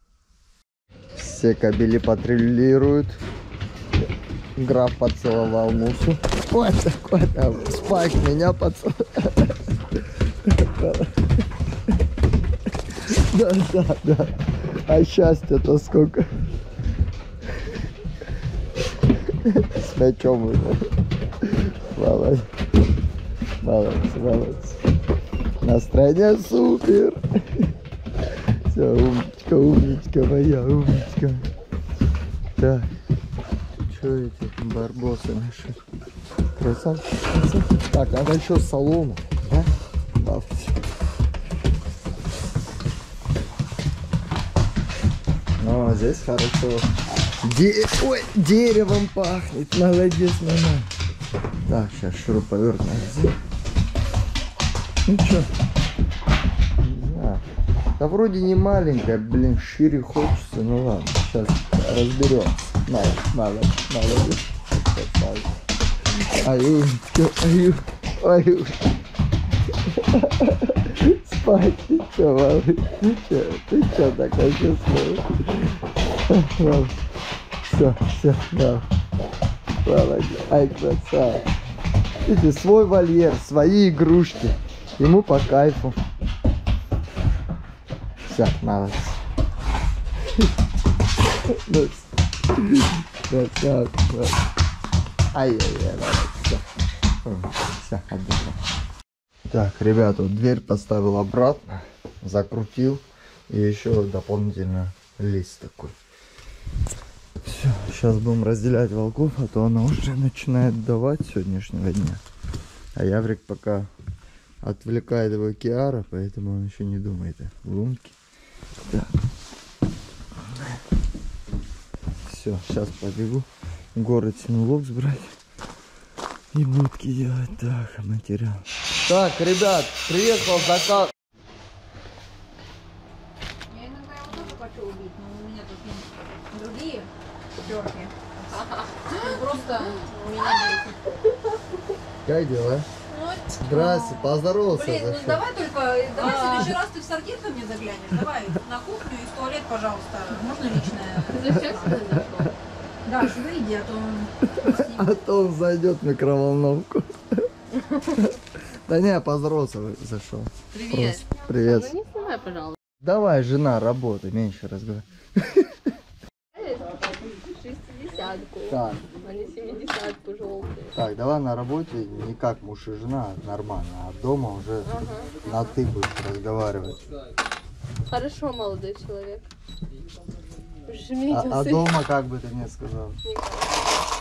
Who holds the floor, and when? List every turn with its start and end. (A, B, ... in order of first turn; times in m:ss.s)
0:01.1-0:03.2 A
0:04.6-0:09.6 A
0:10.4-0:11.4 A
0:13.0-0:16.3 A
0:19.3-0:20.8 A
0:21.4-0:22.5 A
0:23.6-0:24.8 A
0:25.6-0:27.7 A
0:28.6-0:31.4 A
0:32.6-0:32.9 A
0:33.9-0:35.8 A
0:36.5-0:40.8 A
0:45.6-0:46.9 A
0:47.4-0:50.9 A
0:51.6-0:53.3 A
0:55.0-0:55.5 A
0:56.8-0:57.4 A
0:58.0-1:05.5 A
1:06.4-1:08.9 A
1:09.5-1:16.9 A
1:17.6-1:18.8 A
1:19.8-1:21.4 A
1:22.2-1:26.0 A
1:28.2-1:29.2 A
1:31.5-1:34.4 A
1:35.3-1:36.6 A
1:37.2-1:38.6 A
1:39.5-1:46.0 A
1:47.4-1:52.2 A
1:52.9-1:53.9 A
1:54.6-1:58.2 A
1:58.9-1:59.1 A
2:00.4-2:00.8 A
2:02.2-2:05.4 A
2:06.5-2:11.1 A
2:13.7-2:20.9 B
2:18.5-2:20.9 C
2:22.2-2:22.9 A
2:23.1-2:32.0 B
2:23.6-2:25.4 A
2:26.1-2:26.8 C
2:31.2-2:32.5 C
2:31.5-2:32.2 A
2:33.0-2:35.2 B
2:34.4-2:37.5 A
2:38.1-2:42.0 A
2:40.7-2:42.8 C
2:43.0-2:45.8 A
2:46.6-2:50.9 C
2:48.7-2:49.0 A
2:50.9-2:54.9 A
2:54.8-2:55.8 C
2:55.4-2:57.0 A
2:58.1-2:59.4 C
3:00.9-3:02.0 C
3:01.3-3:03.2 A
3:03.2-3:03.8 C